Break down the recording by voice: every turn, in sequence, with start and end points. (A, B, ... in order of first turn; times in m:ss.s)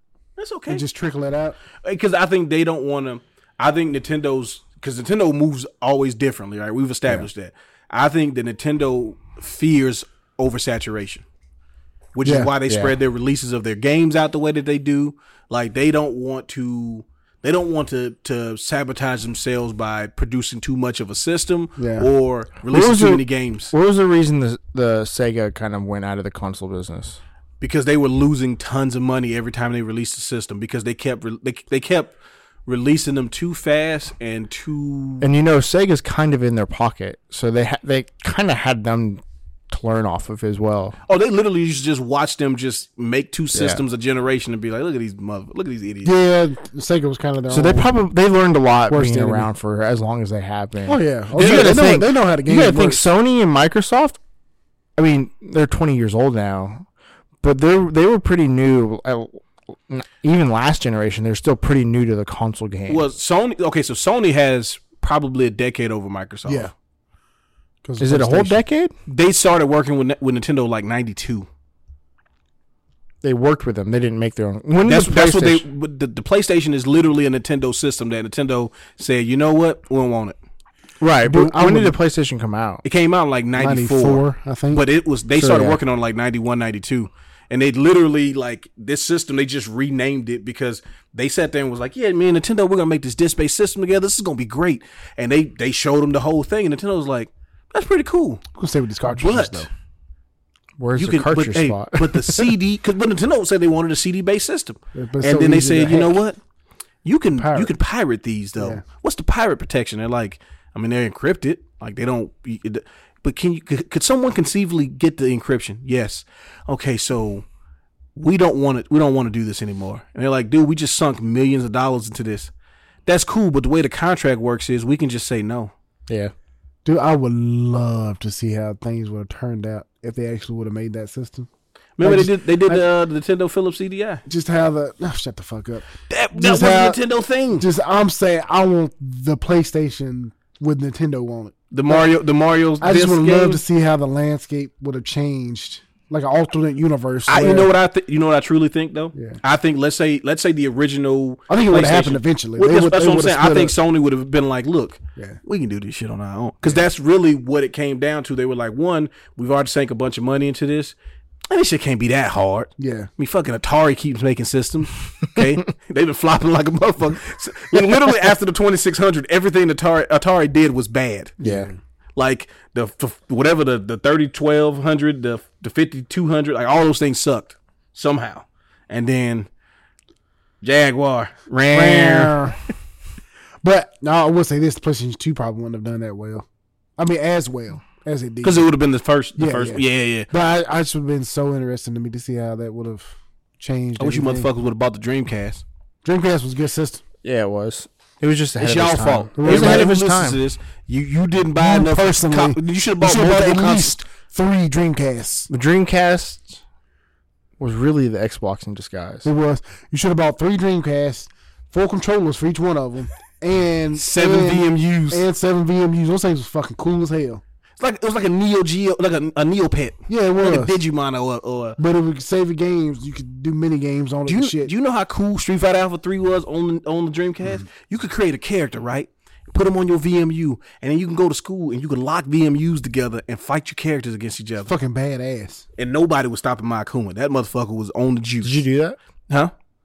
0:00.4-0:00.8 A
0:00.7-0:01.6 B
0:01.8-0:11.2 A
0:12.1-0:23.7 A
0:12.2-0:12.5 B
0:12.7-0:13.0 C
0:21.8-0:22.1 B
0:22.7-0:27.2 C
0:27.6-0:35.3 A
0:35.2-0:41.0 C
0:41.1-0:46.1 A
0:43.5-0:43.8 C
0:46.0-0:47.9 B
0:47.5-0:54.2 C
0:48.9-0:49.5 B
0:50.8-0:53.0 B
0:51.4-0:51.8 A
0:55.0-0:56.8 C
0:57.4-1:03.0 C
1:02.9-1:06.7 A
1:06.4-1:06.7 B
1:07.8-1:08.6 B
1:08.0-1:08.9 C
1:09.1-1:11.5 A
1:13.2-1:15.6 C
1:14.8-1:20.4 A
1:21.0-1:22.8 C
1:21.2-1:22.0 B
1:22.8-1:38.4 A
1:23.6-1:24.8 B
1:25.4-1:25.8 C
1:38.5-1:39.7 B
1:39.1-1:39.7 A
1:40.8-1:42.5 C
1:41.0-1:46.4 A
1:44.9-1:46.2 B
1:47.0-1:57.4 A
1:47.4-1:47.7 B
1:58.1-2:02.5 A
2:03.0-2:05.7 A
2:06.1-2:06.3 C
2:06.8-2:11.5 B
2:12.0-2:14.2 A
2:12.0-2:12.8 B
2:14.2-2:17.0 B
2:16.0-2:17.6 A
2:17.6-2:22.1 B
2:21.7-2:23.6 A
2:22.8-2:27.7 B
2:27.3-2:40.9 A
2:29.1-2:29.4 B
2:31.5-2:33.7 B
2:35.2-2:35.4 B
2:41.5-2:51.4 A
2:42.8-2:43.1 B
2:51.4-2:51.8 B
2:51.4-2:51.7 C
2:52.2-2:59.5 A
3:00.6-3:02.5 A
3:01.7-3:02.6 B
3:03.6-3:06.4 B
3:07.0-3:08.7 B
3:08.4-3:10.3 A
3:09.4-3:14.5 B
3:14.0-3:15.6 A
3:16.0-3:17.0 B
3:17.2-3:20.4 C
3:18.6-3:24.0 A
3:19.4-3:19.9 B
3:21.6-3:25.5 B
3:25.5-3:26.6 C
3:27.6-3:29.3 C
3:29.2-3:37.4 B
3:34.0-3:35.2 A
3:37.8-3:41.8 A
3:40.1-3:40.8 B
3:41.8-3:44.7 B
3:44.3-3:54.7 A
3:54.6-3:55.7 B
3:55.8-3:58.6 A
3:58.4-3:59.0 C